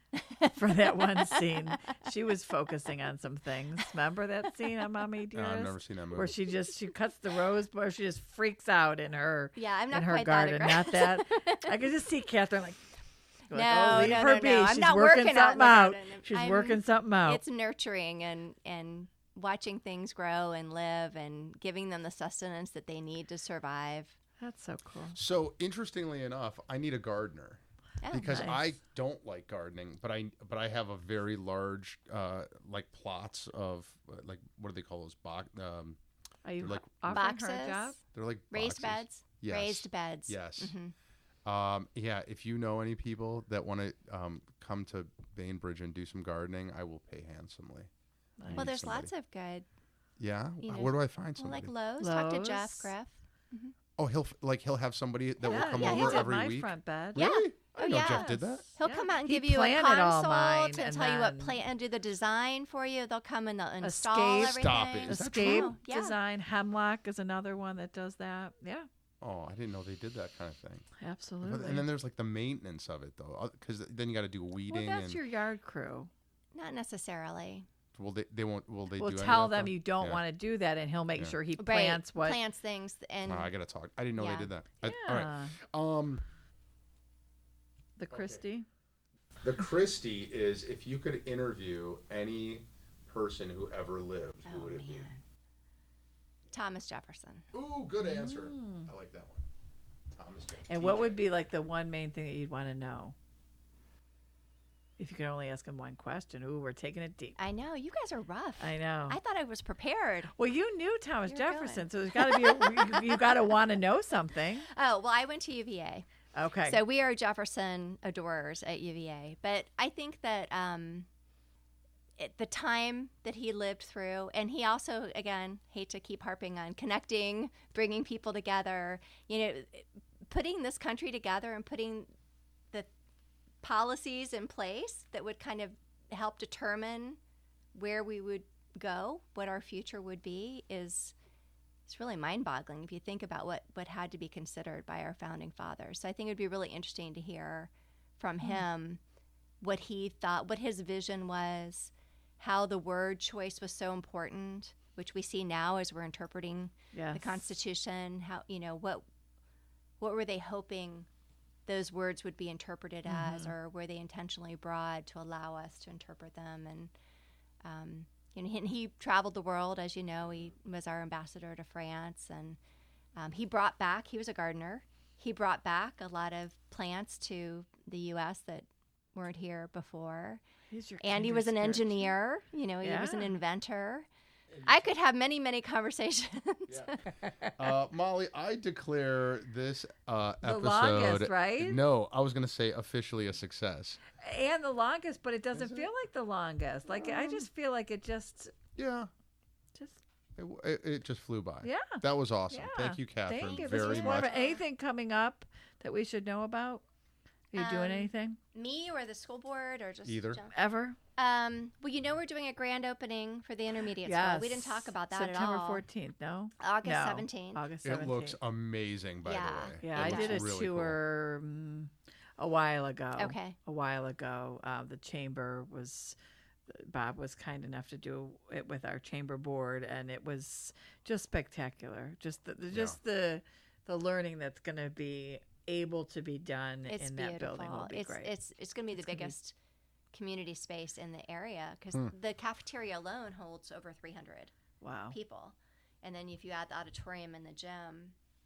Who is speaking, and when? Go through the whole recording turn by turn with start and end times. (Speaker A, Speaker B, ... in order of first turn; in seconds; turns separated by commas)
Speaker A: 0.1-1.9, Speaker B: 0.4-12.8, Speaker C: 5.3-6.4, Speaker A: 9.6-11.7, Speaker B: 13.5-17.4, Speaker A: 13.5-24.1, Speaker B: 24.4-25.2, Speaker C: 25.1-36.0, Speaker A: 28.0-28.4, Speaker B: 28.2-28.6, Speaker B: 36.4-38.0, Speaker C: 36.6-37.2, Speaker A: 37.1-38.0, Speaker C: 38.1-40.7, Speaker A: 38.5-40.9, Speaker C: 41.4-47.9, Speaker B: 48.4-48.7, Speaker C: 48.5-49.1, Speaker A: 48.5-49.6, Speaker C: 50.2-51.7, Speaker A: 50.6-53.7, Speaker B: 52.0-52.9, Speaker C: 54.0-58.6, Speaker B: 55.4-57.2, Speaker A: 55.5-56.3, Speaker A: 57.1-66.1, Speaker B: 57.8-61.6, Speaker B: 63.8-68.9, Speaker C: 64.5-65.7, Speaker C: 69.2-70.8, Speaker B: 71.0-71.8, Speaker C: 71.4-75.2, Speaker B: 74.6-76.1, Speaker A: 76.5-77.7, Speaker C: 77.9-80.2, Speaker B: 79.0-82.4, Speaker A: 81.6-83.5, Speaker C: 83.2-86.2, Speaker A: 84.2-84.5, Speaker B: 84.8-85.6, Speaker B: 88.0-88.7, Speaker C: 88.1-88.4, Speaker C: 89.4-95.1, Speaker A: 94.4-95.2, Speaker A: 96.5-97.4, Speaker C: 97.5-99.4, Speaker B: 98.0-98.9, Speaker C: 100.1-101.2, Speaker B: 100.7-103.1, Speaker B: 105.0-107.4, Speaker A: 107.4-110.3, Speaker B: 108.6-109.2, Speaker B: 110.3-114.7, Speaker A: 111.3-113.3, Speaker A: 114.7-116.0, Speaker B: 116.3-116.8, Speaker A: 116.6-121.1, Speaker A: 122.2-132.1, Speaker A: 133.6-137.2, Speaker A: 137.7-141.1, Speaker A: 141.9-149.0, Speaker A: 149.6-159.0, Speaker B: 156.9-157.4, Speaker A: 160.0-161.1, Speaker A: 161.7-166.9, Speaker B: 163.1-163.5, Speaker A: 167.6-172.6, Speaker A: 173.2-180.4, Speaker B: 180.7-182.1, Speaker A: 181.0-184.1, Speaker B: 182.8-183.4, Speaker A: 184.6-187.0, Speaker C: 186.7-186.9, Speaker C: 187.6-194.0, Speaker B: 190.4-191.8, Speaker B: 194.2-198.5, Speaker C: 195.5-195.9, Speaker C: 196.9-197.5, Speaker C: 198.8-199.1, Speaker C: 200.4-204.3, Speaker B: 201.6-206.8, Speaker A: 203.4-204.6, Speaker B: 207.5-208.4, Speaker A: 207.5-210.6, Speaker C: 210.0-210.4, Speaker B: 210.5-211.0, Speaker A: 211.2-215.8, Speaker B: 214.0-218.4, Speaker A: 216.6-217.6, Speaker C: 217.8-221.0, Speaker A: 219.2-220.5, Speaker B: 219.8-226.2, Speaker A: 223.2-223.6, Speaker B: 226.7-238.3, Speaker C: 232.7-233.0, Speaker A: 236.8-239.5, Speaker B: 238.9-239.3, Speaker A: 240.1-244.5, Speaker B: 244.8-245.2, Speaker A: 245.1-248.1